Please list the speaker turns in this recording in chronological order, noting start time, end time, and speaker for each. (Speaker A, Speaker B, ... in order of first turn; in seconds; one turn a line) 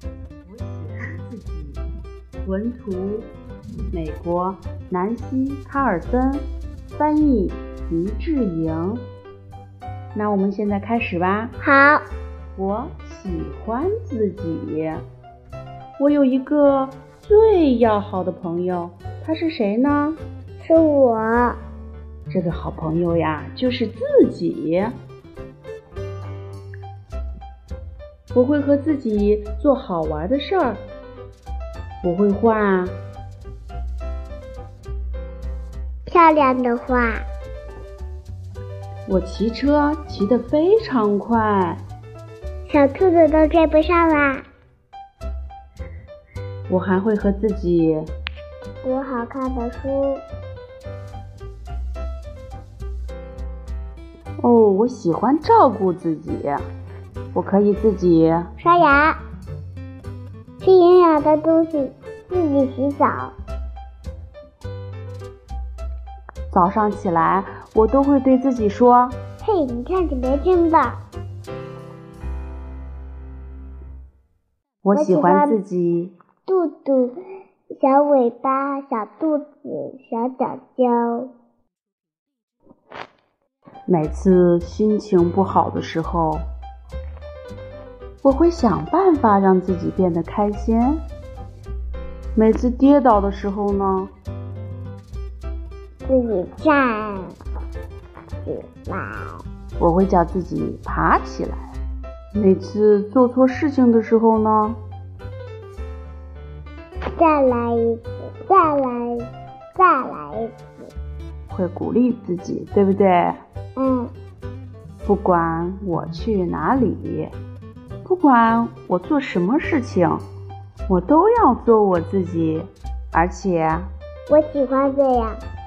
Speaker A: 0.5-1.8
Speaker A: 2.5-3.2
Speaker A: 3.9-6.4
Speaker A: 7.0-9.0
Speaker A: 10.2-11.5
Speaker B: 11.6-12.1
Speaker A: 12.6-15.0
Speaker A: 16.0-20.2
Speaker B: 20.6-21.6
Speaker A: 22.3-24.9
Speaker A: 28.3-30.8
Speaker A: 32.0-32.9
Speaker B: 36.1-37.3
Speaker A: 39.1-41.5
Speaker B: 42.7-44.5
Speaker A: 46.7-48.0
Speaker B: 48.8-50.2
Speaker A: 54.4-56.6
Speaker A: 57.4-58.3
Speaker B: 58.6-59.2
Speaker B: 60.6-63.4
Speaker A: 66.5-69.1
Speaker B: 69.4-71.0
Speaker A: 74.8-76.1
Speaker B: 74.9-75.6
Speaker B: 76.5-77.2
Speaker B: 77.7-81.3
Speaker A: 83.9-86.4
Speaker A: 88.2-90.9
Speaker A: 92.3-94.1
Speaker B: 96.0-97.4
Speaker B: 98.4-99.4
Speaker A: 99.8-101.6
Speaker A: 102.4-104.7
Speaker B: 107.2-110.9
Speaker A: 111.5-113.2
Speaker B: 113.8-114.1
Speaker A: 115.1-117.2
Speaker A: 118.1-120.1
Speaker A: 120.9-122.6
Speaker A: 123.1-123.8
Speaker B: 124.3-125.4